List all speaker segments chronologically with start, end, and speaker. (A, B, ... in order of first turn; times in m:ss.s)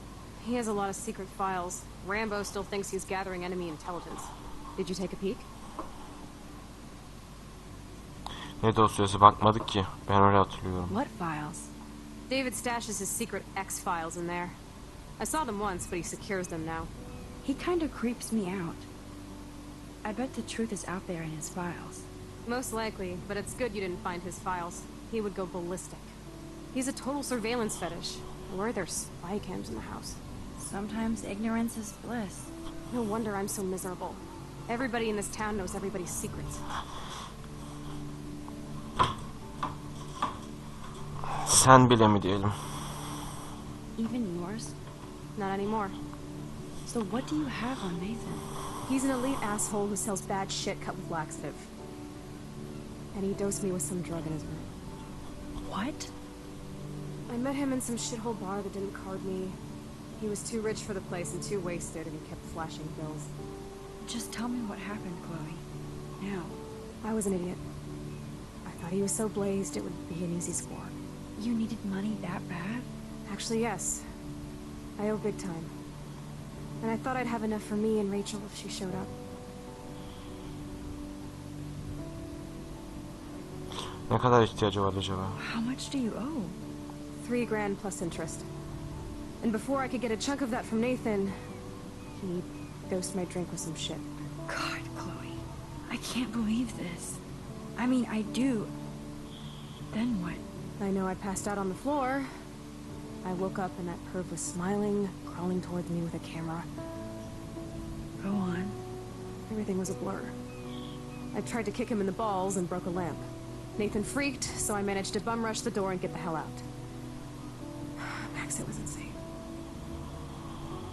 0:00.4-0:05.5 A
0:08.6-0:11.0 B
0:10.9-0:11.7 C
0:12.3-0:14.6 A
0:15.2-0:16.9 A
0:17.4-0:18.9 C
0:20.0-0:22.1 C
0:22.4-0:26.1 A
0:26.7-0:30.2 A
0:30.6-0:32.5 C
0:32.9-0:36.6 A
0:41.3-0:42.6 B
0:44.0-0:44.8 C
0:45.4-0:46.0 A
0:46.8-0:48.5 C
0:48.9-0:51.7 A
0:53.1-0:54.7 A
0:55.6-0:56.1 C
0:57.3-0:59.6 A
1:00.2-1:03.3 A
1:04.0-1:05.6 C
1:06.2-1:06.6 C
1:07.0-1:07.6 A
1:08.6-1:10.9 A
1:11.4-1:12.9 C
1:13.2-1:14.0 A
1:15.0-1:15.7 A
1:16.8-1:19.1 A
1:24.1-1:25.4 B
1:25.4-1:26.6 C
1:27.2-1:28.5 A
1:29.4-1:31.3 A
1:32.2-1:34.0 A
1:34.5-1:37.2 C
1:37.8-1:38.7 C
1:39.9-1:40.4 C
1:40.8-1:42.3 A
1:43.2-1:46.7 A
1:48.2-1:48.8 C
1:49.5-1:50.3 A
1:51.3-1:53.2 A
1:53.8-1:56.6 A
1:58.0-1:59.2 A